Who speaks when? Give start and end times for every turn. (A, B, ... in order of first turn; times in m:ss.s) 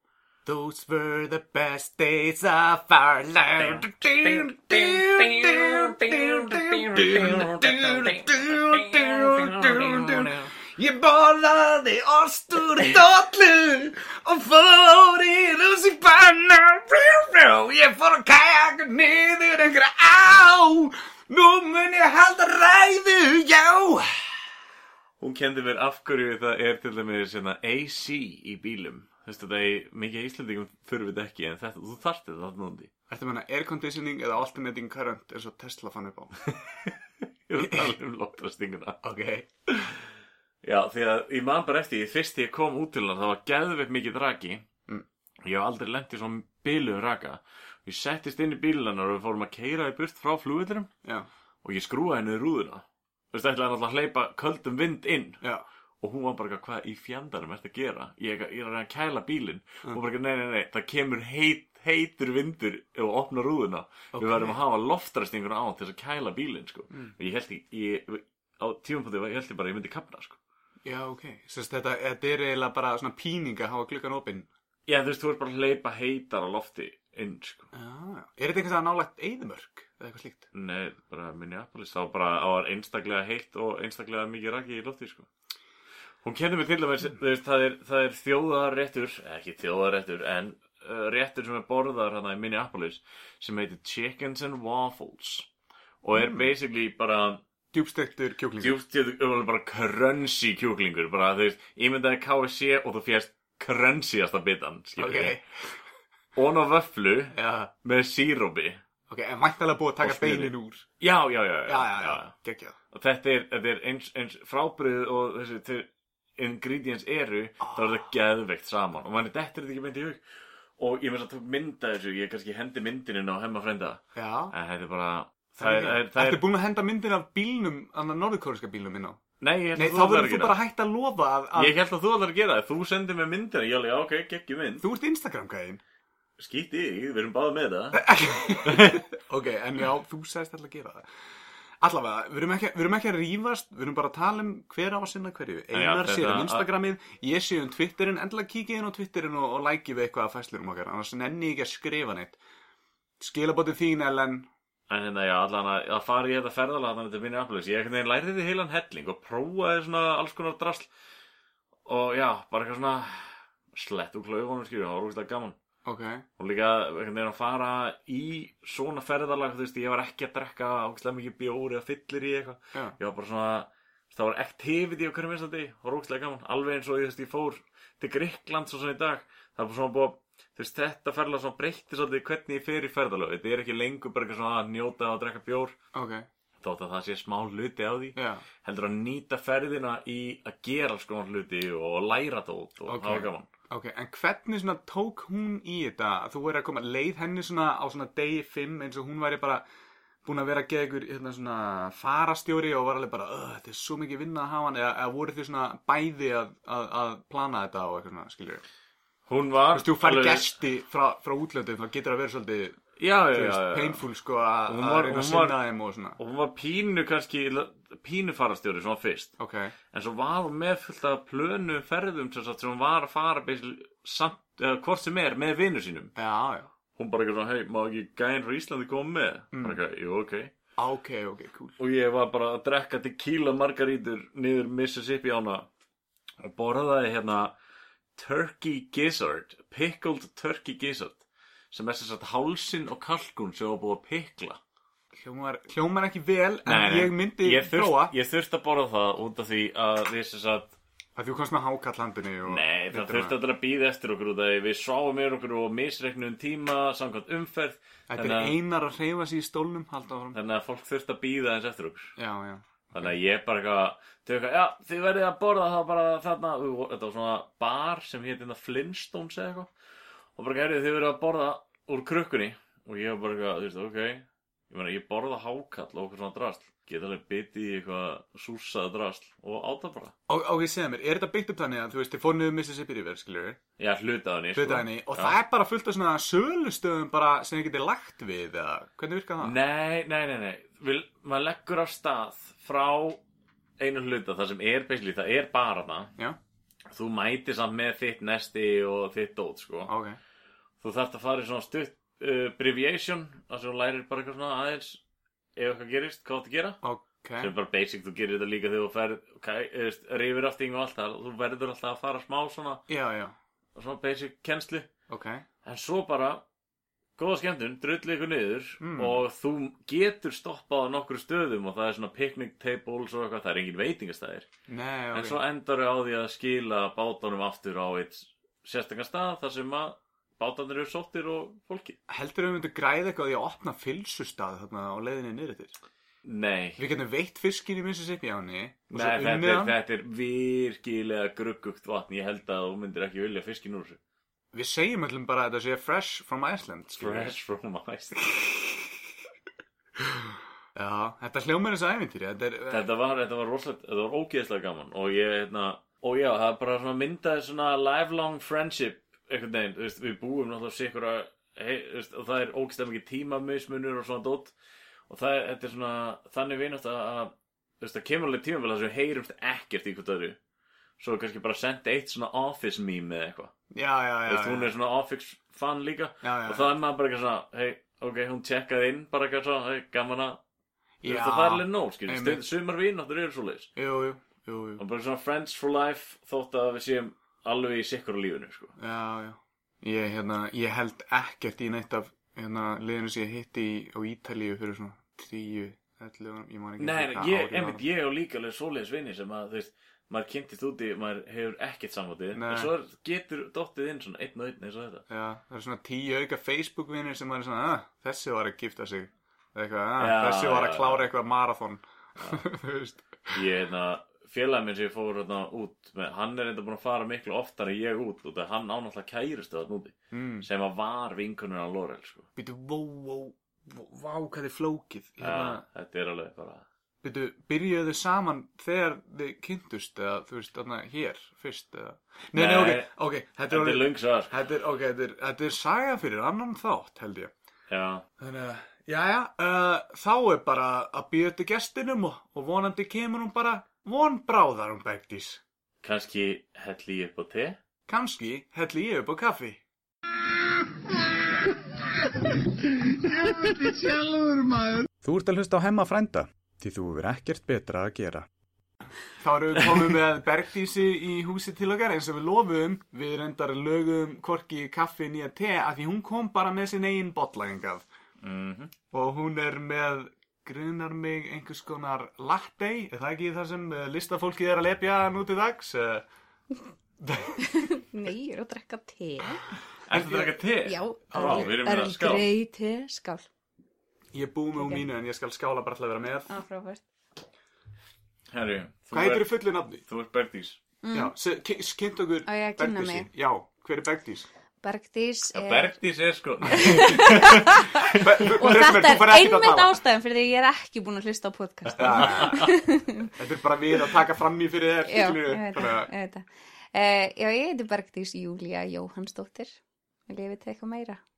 0:00.4-0:24.3 A
0:03.6-0:10.5 B
0:25.2-0:32.9 B
0:33.1-0:36.4 A
0:36.5-0:39.0 B
0:37.6-0:37.9 A
0:39.0-0:39.5 A
0:40.6-0:44.6 B
0:45.4-0:50.9 B
0:51.6-0:55.4 B
0:56.0-1:10.4 B
1:04.1-1:04.6 A
1:10.8-1:14.5 A
1:14.9-1:17.7 B
1:17.7-1:20.5 A
1:20.5-1:25.3 B
1:26.2-1:35.5 B
1:36.0-1:37.4 B
1:36.1-1:36.5 A
1:37.7-1:38.8 A
1:38.6-1:45.4 B
1:45.0-1:45.7 A
1:46.3-1:48.8 B
1:47.3-1:47.7 A
1:49.1-1:50.9 A
1:50.0-1:52.3 B
1:51.7-1:52.8 A
1:52.9-2:00.2 B
1:57.6-1:57.9 A
2:00.8-2:06.4 B
2:04.1-2:04.5 A
2:05.6-2:09.2 A
2:09.4-2:10.6 B
2:09.7-2:11.8 A
2:11.6-2:14.9 B
2:14.8-2:15.8 A
2:16.4-2:18.1 B
2:17.9-2:21.1 A
2:18.6-2:19.0 B
2:21.8-2:32.4 A
2:25.7-2:26.7 B
2:33.2-2:34.5 A
2:34.9-2:40.9 B
2:41.8-2:45.6 B
2:45.8-2:46.2 A
2:46.4-3:05.8 B
3:05.9-3:06.3 A
3:06.6-3:13.5 B
3:08.2-3:08.4 A
3:12.9-3:19.6 A
3:20.2-3:28.6 A
3:29.3-3:30.5 B
3:29.7-3:32.8 A
3:33.0-3:34.0 B
3:33.3-3:36.2 A
3:34.7-3:35.6 B
3:36.2-3:39.3 B
3:39.4-3:39.7 A
3:39.9-3:46.1 B
3:46.2-3:46.7 A
3:47.0-3:50.5 B
3:49.5-3:49.8 A
3:50.8-3:51.8 A
3:51.8-3:55.7 B
3:56.4-3:57.5 B
3:58.2-4:04.6 B
4:05.1-4:08.1 A
4:06.6-4:10.8 B
4:11.2-4:13.3 A
4:12.5-4:18.5 B
4:18.1-4:20.4 A
4:20.3-4:22.1 B
4:22.2-4:23.1 A
4:22.9-4:29.7 B
4:30.4-4:40.1 B
4:40.3-4:43.6 A
4:43.8-4:45.4 B
4:44.5-4:49.6 A
4:49.4-4:53.2 B
4:53.8-4:56.1 B
4:56.9-4:59.9 B
4:59.9-5:00.2 A
5:00.8-5:05.0 B
5:05.6-5:06.8 B
5:06.8-5:07.5 A
5:07.4-5:12.8 B
5:12.9-5:13.3 A
5:13.7-5:14.9 B
5:15.1-5:15.4 A
5:15.6-5:16.4 B
5:17.2-5:24.5 B
5:18.8-5:19.2 A
5:24.7-5:25.4 A
5:25.1-5:32.0 B
5:32.1-5:35.7 A
5:36.2-5:36.8 B
5:36.8-5:39.7 A
5:38.9-5:44.0 B
5:44.5-5:47.3 A
5:47.0-5:48.7 B
5:50.7-5:52.8 A
5:52.7-6:04.5 B
6:05.1-6:10.4 B
6:11.0-6:13.5 B
6:13.7-6:14.7 A
6:14.3-6:20.4 B
6:16.2-6:16.7 A
6:21.0-6:22.4 A
6:21.0-6:23.7 B
6:23.8-6:24.8 A
6:24.8-6:28.7 B
6:28.8-6:37.8 A
6:36.8-6:45.0 B
6:42.3-6:42.7 A
6:45.1-6:53.4 A
6:50.0-6:51.1 B
6:52.2-6:52.4 B
6:53.3-7:02.3 B
7:00.1-7:00.5 A
7:02.4-7:05.6 A
7:05.2-7:06.6 B
7:07.0-7:17.3 A
7:12.3-7:12.9 B
7:13.5-7:14.4 B
7:17.7-7:18.0 B
7:18.2-7:25.4 A
7:25.8-7:27.6 B
7:27.9-7:29.6 A
7:33.0-7:38.3 A
7:39.2-7:47.9 A
7:48.2-7:48.7 B
7:48.9-7:56.0 A
7:57.0-7:57.6 A
7:57.5-7:59.4 C
7:59.9-8:02.3 B
7:59.9-8:00.3 A
8:00.6-8:03.3 C
8:01.1-8:01.5 A
8:04.1-8:06.3 A
8:06.3-8:06.8 C
8:08.3-8:10.6 B
8:08.9-8:09.8 A
8:10.8-8:11.1 C
8:10.9-8:14.3 A
8:12.2-8:13.1 C
8:14.6-8:15.7 C
8:15.3-8:17.5 B
8:16.5-8:23.1 C
8:17.9-8:19.8 A
8:21.8-8:22.2 B
8:21.8-8:25.9 A
8:24.9-8:29.6 C
8:30.1-8:31.0 C